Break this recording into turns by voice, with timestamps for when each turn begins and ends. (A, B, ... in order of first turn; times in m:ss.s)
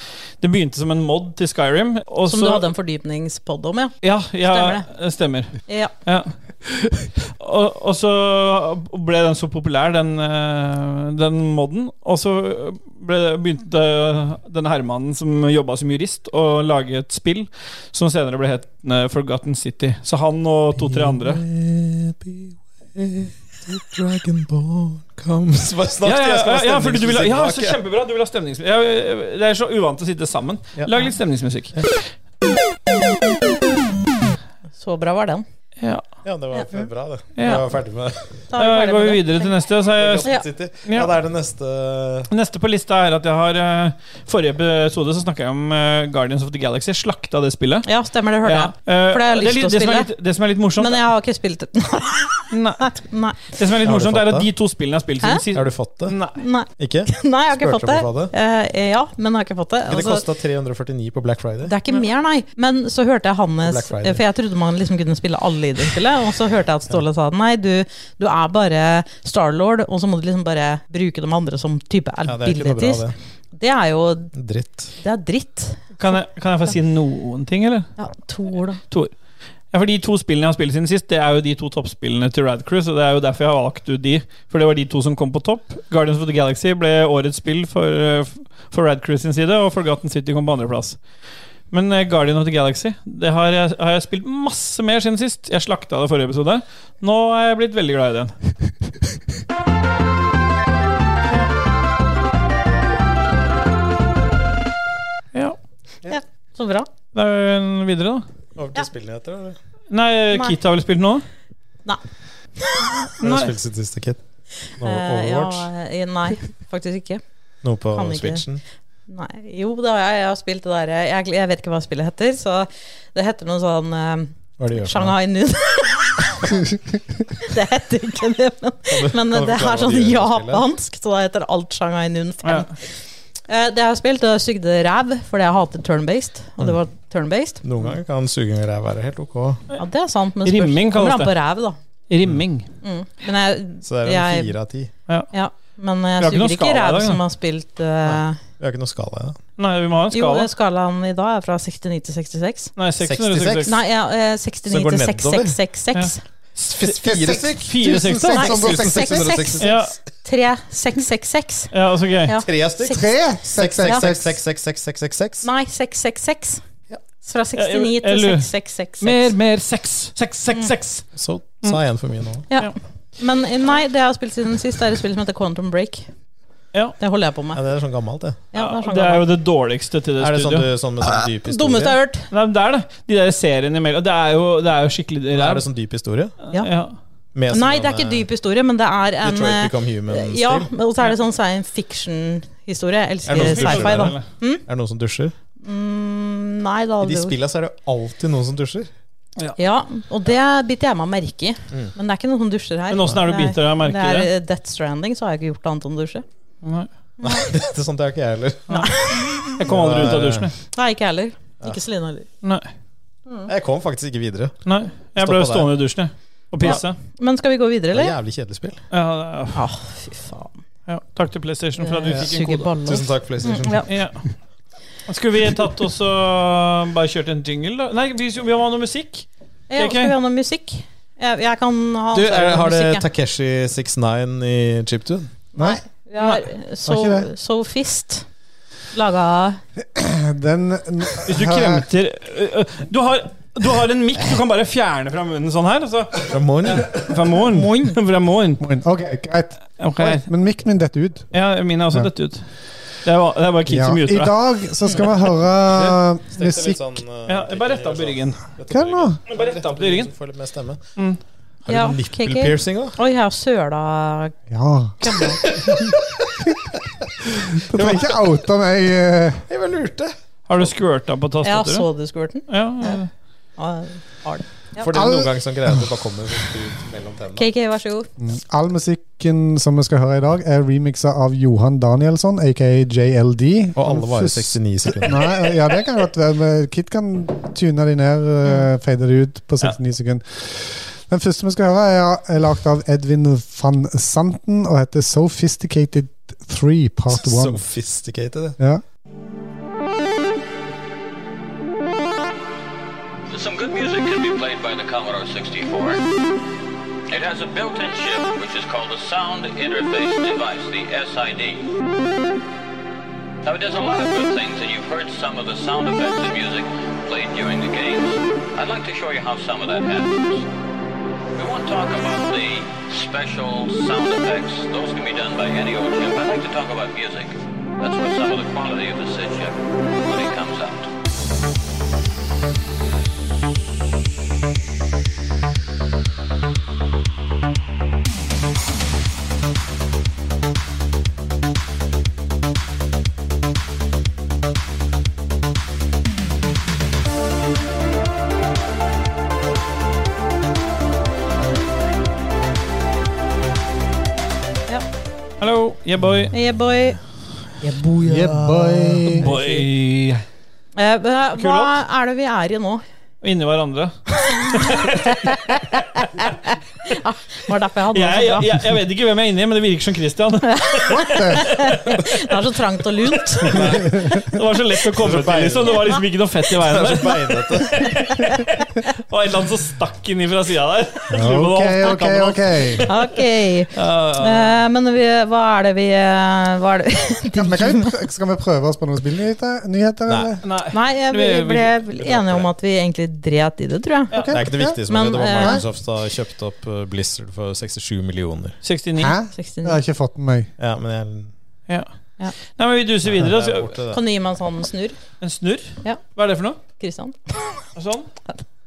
0:00.4-0:02.6 A
0:02.3-0:03.9 B
0:04.0-0:21.4 A
0:04.4-0:04.8 B
0:20.8-0:27.8 C
0:26.0-0:32.0 A
0:34.8-0:35.4 B
0:36.2-0:38.2 C
0:37.4-0:37.6 A
0:38.5-0:39.6 B
0:38.5-0:40.3 A
0:40.0-0:42.3 C
0:40.8-0:41.1 A
0:42.3-0:47.9 A
0:47.8-0:50.1 B
0:48.4-0:51.0 A
0:50.8-0:53.5 B
0:52.5-0:52.9 A
0:53.5-0:56.4 A
0:53.8-0:54.5 C
0:55.5-0:56.2 C
0:56.4-1:00.2 B
0:56.7-0:58.3 C
0:59.9-1:01.7 C
1:01.6-1:14.3 B
1:03.6-1:04.2 C
1:12.2-1:13.2 C
1:14.3-1:14.9 C
1:15.0-1:16.2 B
1:16.0-1:17.9 A
1:18.0-1:18.8 B
1:19.7-1:31.0 A
1:31.7-1:38.3 A
1:46.1-1:46.9 B
1:47.1-1:48.2 A
1:48.6-1:49.6 C
1:49.9-1:51.2 A
1:52.6-1:53.0 B
1:53.2-1:54.2 C
1:53.2-1:53.5 A
1:54.8-1:55.7 C
1:54.8-1:57.2 B
1:57.6-1:58.6 C
1:57.9-1:58.4 B
1:59.1-2:06.6 B
2:04.6-2:05.1 C
2:07.4-2:12.9 B
2:08.9-2:10.6 C
2:12.4-2:12.7 A
2:13.5-2:17.6 B
2:17.6-2:19.6 C
2:19.7-2:21.8 B
2:20.4-2:21.3 A
2:22.1-2:22.7 A
2:22.8-2:24.5 B
2:23.8-2:24.9 C
2:25.3-2:28.4 B
2:26.2-2:27.2 A
2:28.0-2:29.4 C
2:29.6-2:30.5 A
2:30.1-2:32.7 B
2:32.8-2:33.7 A
2:33.0-2:33.8 C
2:33.6-2:36.2 B
2:34.7-2:35.6 C
2:35.9-2:38.6 A
2:36.6-2:39.9 C
2:36.9-2:39.6 D
2:38.4-2:41.7 B
2:39.6-2:39.9 A
2:41.7-2:42.3 A
2:42.2-2:43.1 B
2:42.4-2:45.4 C
2:42.9-2:44.3 D
2:45.4-2:46.6 B
2:47.2-2:49.3 B
2:47.6-2:51.1 A
2:51.1-2:52.4 C
2:52.5-2:56.1 B
2:57.0-2:57.6 B
2:57.5-2:58.4 C
2:58.5-2:59.2 B
2:58.5-3:00.7 A
3:00.2-3:02.0 C
3:01.4-3:02.3 B
3:02.3-3:05.6 A
3:05.3-3:06.3 C
3:06.4-3:06.9 A
3:07.3-3:08.2 C
3:07.5-3:14.6 B
3:09.2-3:10.7 C
3:13.2-3:15.3 C
3:13.3-3:14.2 A
3:15.6-3:17.4 B
3:17.0-3:18.9 C
3:19.6-3:26.2 B
3:22.9-3:24.3 A
3:26.6-3:26.9 A
3:27.2-3:28.9 C
3:28.7-3:29.6 B
3:28.7-3:30.5 A
3:29.4-3:30.5 C
3:30.7-3:32.3 B
3:32.4-3:32.7 A
3:33.5-3:34.6 C
3:34.6-3:37.0 A
3:35.2-3:35.7 C
3:36.6-3:38.1 B
3:37.9-3:38.8 C
3:38.9-3:39.6 A
3:39.5-3:40.5 B
3:40.9-3:43.0 A
3:41.8-3:43.9 B
3:42.8-3:43.9 C
3:43.9-3:44.2 A
3:45.1-3:50.1 A
3:49.7-3:53.0 B
3:52.1-3:55.3 C
3:55.5-3:58.3 B
3:55.6-3:55.8 D
3:56.8-3:57.3 D
3:58.9-3:59.6 B
3:59.9-4:01.8 D
4:01.2-4:08.6 A
4:06.3-4:07.0 C
4:07.5-4:08.0 B
4:08.6-4:11.3 D
4:09.8-4:10.3 A
4:11.3-4:12.4 A
4:13.0-4:14.3 A
4:13.7-4:16.8 D
4:15.8-4:20.8 C
4:17.3-4:18.4 A
4:18.7-4:19.2 D
4:19.3-4:20.1 A
4:21.6-4:23.0 C
4:21.7-4:24.4 B
4:24.5-4:25.0 D
4:25.0-4:25.4 B
4:25.4-4:26.5 C
4:27.5-4:29.4 D
4:27.7-4:28.4 C
4:29.5-4:30.7 C
4:30.5-4:31.9 A
4:31.4-4:33.0 B
4:32.5-4:33.1 A
4:33.6-4:34.9 B
4:34.8-4:37.4 C
4:34.9-4:35.8 D
4:37.4-4:38.1 B
4:38.2-4:57.6 D
4:43.7-4:45.3 C
4:57.1-4:58.6 C
5:03.3-5:06.0 E
5:07.1-5:11.7 E
5:13.4-5:20.5 E
5:21.4-5:30.9 E
5:55.4-5:56.3 A
5:56.3-5:57.0 B
5:57.6-5:58.5 B
5:58.0-5:59.3 D
5:59.2-6:00.2 A
5:59.2-5:59.6 B
6:00.8-6:02.8 B
6:01.4-6:01.8 A
6:03.2-6:05.3 A
6:04.2-6:08.6 B
6:07.9-6:12.1 A
6:10.5-6:13.6 B
6:10.9-6:11.5 D
6:13.4-6:23.0 A
6:13.5-6:14.1 C
6:13.9-6:14.2 D
6:15.0-6:16.0 C
6:16.5-6:17.9 C
6:21.1-6:21.5 C
6:21.1-6:22.8 D
6:22.8-6:27.9 B
6:23.7-6:24.6 A
6:27.4-6:30.4 D
6:30.1-6:30.3 C
6:30.4-6:31.7 A
6:30.7-6:35.6 B
6:32.0-6:32.5 C
6:34.2-6:34.8 D
6:34.3-6:38.6 C
6:38.6-6:39.2 A
6:39.0-6:40.5 D
6:39.3-6:39.8 B
6:40.6-6:41.3 C
6:41.7-6:43.7 A
6:43.0-6:44.0 C
6:43.9-6:45.0 B
6:45.2-6:46.6 A
6:46.6-6:47.6 B
6:47.8-6:48.1 A